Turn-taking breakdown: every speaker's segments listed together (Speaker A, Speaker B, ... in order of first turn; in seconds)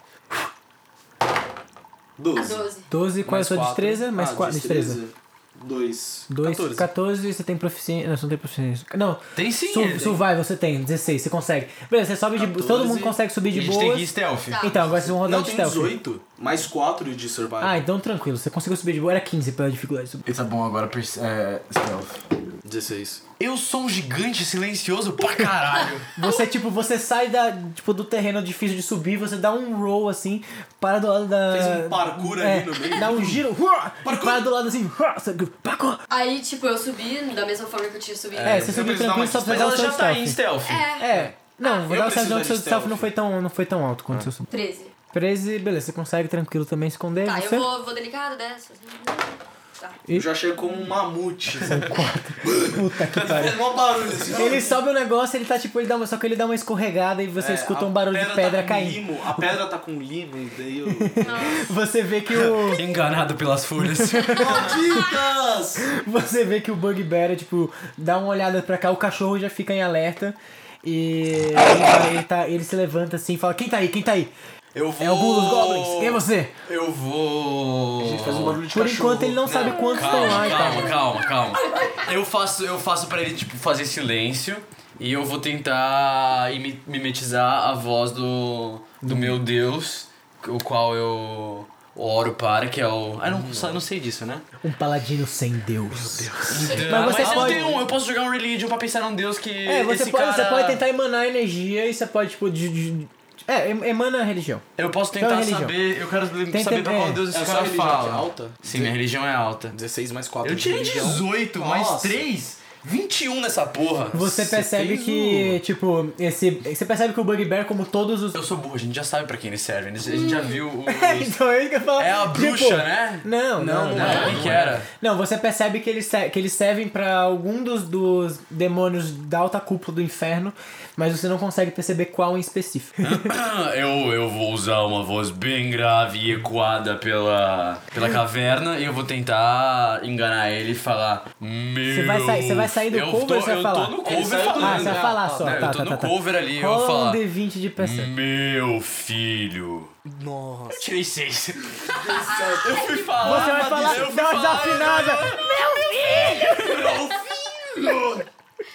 Speaker A: 2.2-2.7, 3.2-6.9, 12.4-13.2, 14.8-17.8, 22.6-23.2, 31.5-33.4, 34.0-34.5, 38.4-39.8, 41.8-43.1, 50.1-51.8, 52.4-54.8, 57.4-61.6, 64.3-65.9, 78.0-80.6, 93.3-93.8, 95.9-97.9, 107.3-108.9, 109.7-112.2, 114.1-115.6, 123.6-124.8, 144.1-145.7, 150.1-150.9, 151.8-154.2, 156.5-158.0
Speaker B: 2.3-2.9, 14.5-14.9, 36.1-38.7, 40.6-41.9, 44.5-44.9, 47.2-50.0, 61.2-61.7, 81.7-82.0, 120.0-120.6, 152.1-153.1
Speaker C: 2.9-5.0, 6.3-16.0, 17.6-20.2, 26.2-36.0, 38.5-40.4, 41.0-44.5, 45.1-47.7, 51.6-53.6, 54.3-59.5, 61.0-62.8, 63.9-64.7, 65.8-74.3, 75.0-76.5, 78.7-81.0, 89.0-89.4, 94.6-97.7, 99.7-104.6, 105.2-105.8, 106.5-107.2, 114.1-118.4, 120.8-133.2, 141.9-144.0, 144.6-148.1, 153.2-156.8
Speaker D: 9.3-10.2, 13.5-14.7, 20.3-22.2, 23.4-26.1, 38.4-38.8, 39.4-40.9, 62.4-64.8, 74.7-78.6, 79.5-94.5, 96.5-100.8, 104.8-109.8, 110.4-114.2, 118.3-121.4, 122.0-123.3, 123.9-124.9, 133.0-147.2, 147.8-149.9, 150.8-157.2, 157.8-158.2